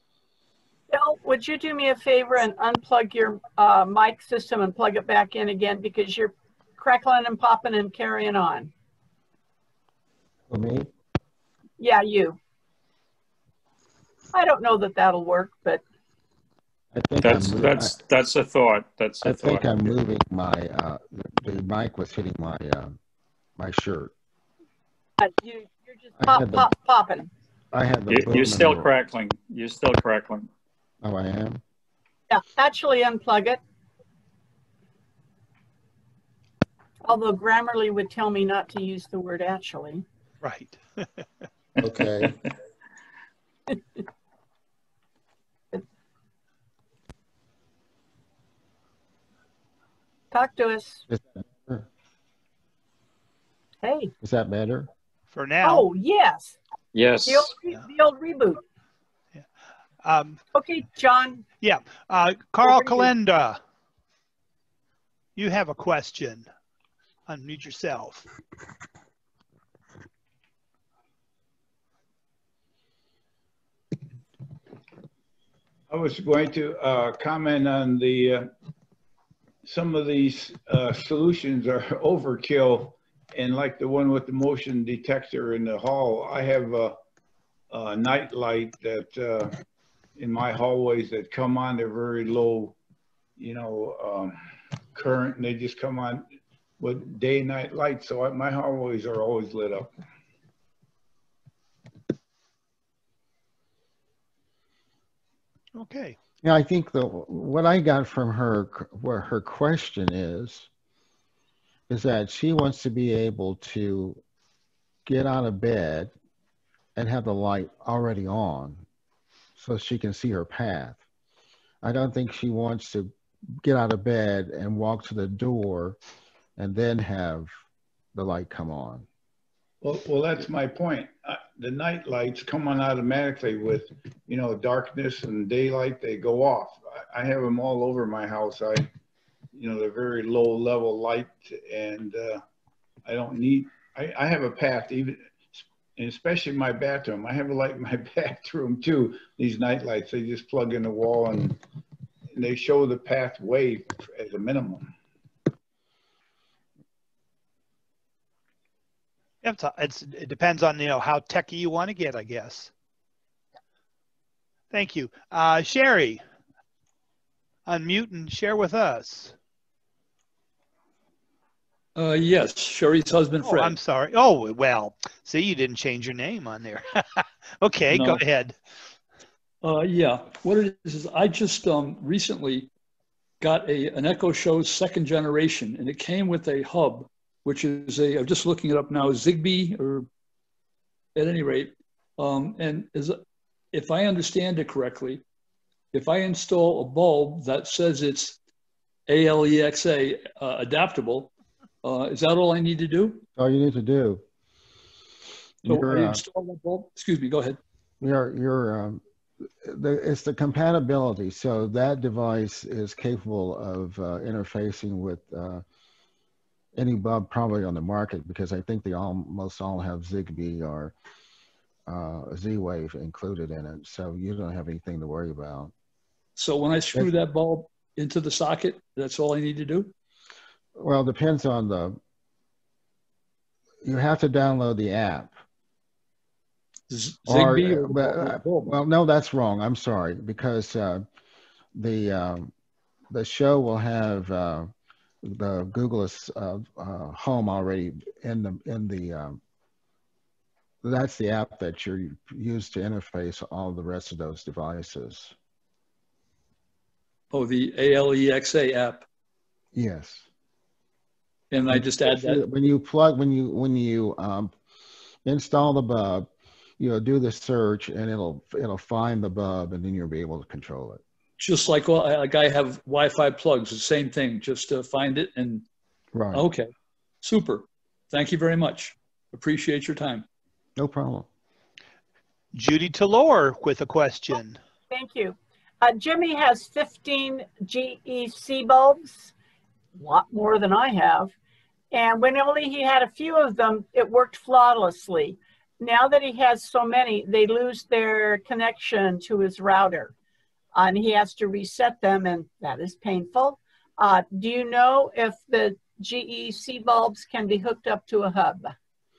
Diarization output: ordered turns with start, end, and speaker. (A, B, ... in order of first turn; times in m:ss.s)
0:00.9-0:08.7 A
0:10.5-0:10.9 B
0:11.8-0:12.4 A
0:14.3-0:15.8 A
0:16.9-0:18.0 B
0:17.2-0:19.9 C
0:19.2-0:23.0 B
0:23.6-0:24.1 B
0:25.2-0:27.3 A
0:26.2-0:26.7 B
0:27.7-0:28.9 B
0:28.1-0:30.5 C
0:31.0-0:31.6 B
0:32.3-0:33.6 A
0:37.0-0:40.0 A
0:40.4-0:41.2 D
0:41.8-0:42.4 B
0:50.3-0:51.0 A
0:51.1-0:51.9 B
0:53.8-0:54.1 A
0:54.2-0:54.9 B
0:55.3-0:55.9 D
0:55.6-0:56.6 A
0:56.9-0:57.5 C
0:57.2-0:58.6 A
1:00.0-1:00.4 D
1:00.5-1:01.4 A
1:01.6-1:03.6 D
1:02.6-1:03.1 A
1:05.4-1:06.5 D
1:07.3-1:08.3 D
1:15.9-1:18.5 E
1:19.6-1:27.0 E
1:27.7-1:29.6 E
1:30.2-1:32.8 E
1:33.4-1:34.4 E
1:34.9-1:36.3 E
1:36.8-1:39.9 E
1:45.7-1:46.2 D
1:46.4-1:50.7 B
1:51.9-1:54.2 B
1:55.0-1:56.1 B
1:57.0-1:58.8 B
1:59.6-2:01.0 B
2:01.8-2:03.1 B
2:03.6-2:06.0 B
2:06.6-2:07.5 B
2:08.1-2:09.1 B
2:09.8-2:18.9 E
2:19.5-2:22.4 E
2:23.0-2:31.6 E
2:32.3-2:34.9 E
2:39.4-2:42.7 D
2:44.7-2:46.2 D
2:47.6-2:49.3 D
2:52.0-2:53.8 F
2:53.4-2:58.5 D
2:57.9-2:58.2 F
2:59.6-3:02.7 F
3:03.4-3:10.1 F
3:11.2-3:13.2 F
3:13.7-3:15.2 F
3:15.9-3:18.4 F
3:19.1-3:21.3 F
3:21.8-3:23.2 F
3:23.4-3:24.2 B
3:25.6-3:26.2 B
3:25.7-3:27.6 F
3:28.0-3:29.0 B
3:29.6-3:35.6 B
3:36.7-3:40.9 B
3:41.9-3:45.7 B
3:46.4-3:49.9 F
3:50.8-3:52.0 B
3:53.8-3:55.3 B
3:56.9-3:58.7 F
3:57.2-4:01.0 B
4:01.7-4:02.5 B
4:03.1-4:04.7 B
4:05.2-4:09.4 B
4:10.8-4:15.3 B
4:17.3-4:19.0 F
4:19.7-4:20.3 B
4:21.5-4:22.4 F
4:21.7-4:24.5 B
4:25.2-4:31.0 B
4:31.4-4:35.6 F
4:36.1-4:36.4 B
4:36.3-4:36.7 F
4:37.2-4:40.2 F
4:40.8-4:41.3 B
4:42.5-4:44.6 D
4:44.9-4:49.3 A
4:50.0-4:51.3 A
4:51.9-5:00.1 A
5:00.7-5:08.7 A